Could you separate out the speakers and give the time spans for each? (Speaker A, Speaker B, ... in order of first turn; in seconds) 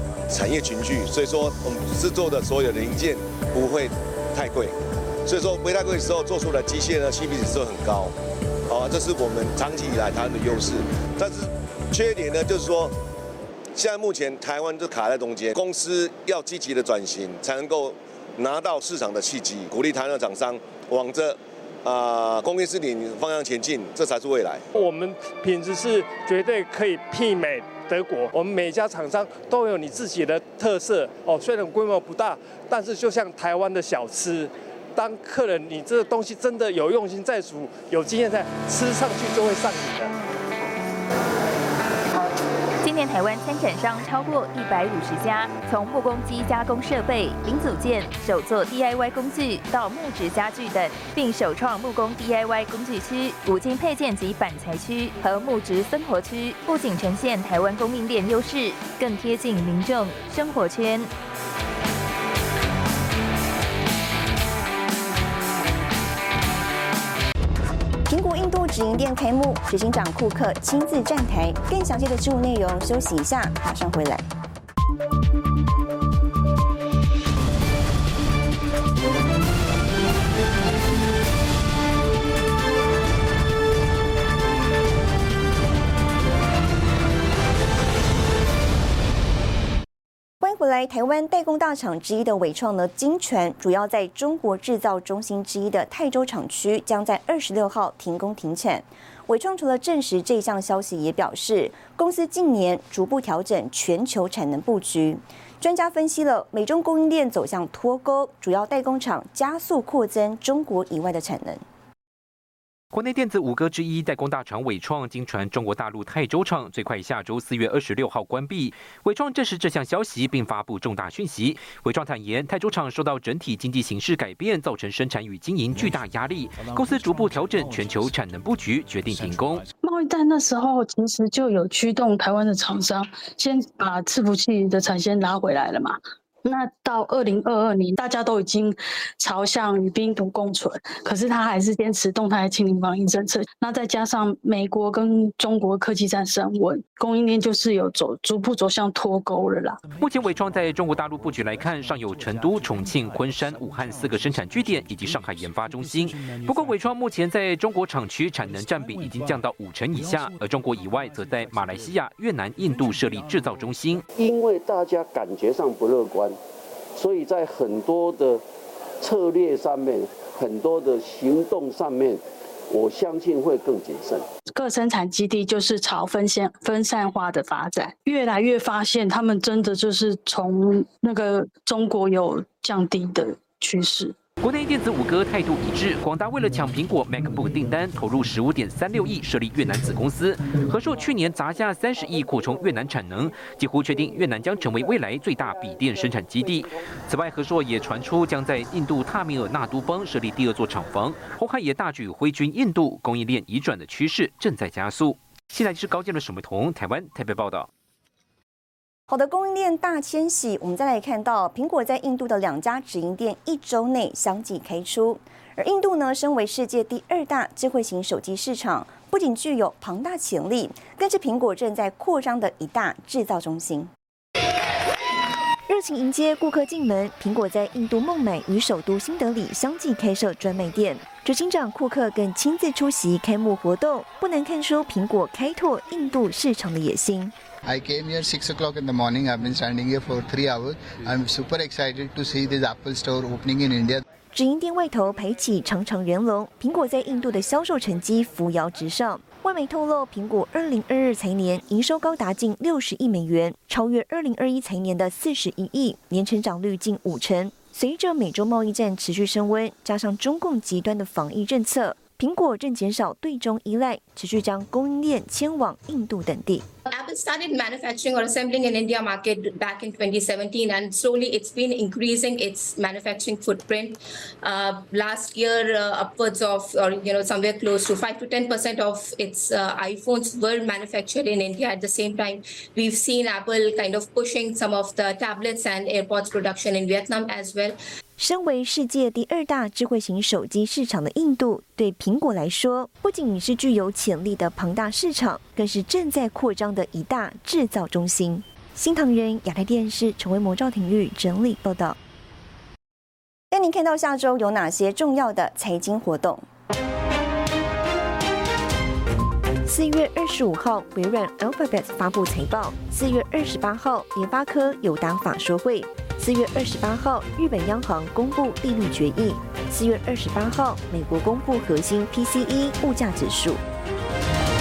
Speaker A: 0.3-8.1, 8.7-12.9, 13.8-24.6
Speaker B: 24.7-40.1
Speaker C: 42.8-61.1
Speaker D: 68.1-74.3, 90.4-111.6, 209.1-223.9, 303.5-306.4
Speaker E: 112.9-129.7, 150.0-164.0, 184.4-207.7
Speaker F: 129.8-149.8, 174.6-184.2
Speaker G: 164.2-166.4, 166.9-168.4, 169.0-174.2
Speaker H: 225.7-237.3, 244.3-266.7, 288.2-302.0, 309.6-323.6
Speaker I: 237.7-244.0
Speaker J: 266.9-287.8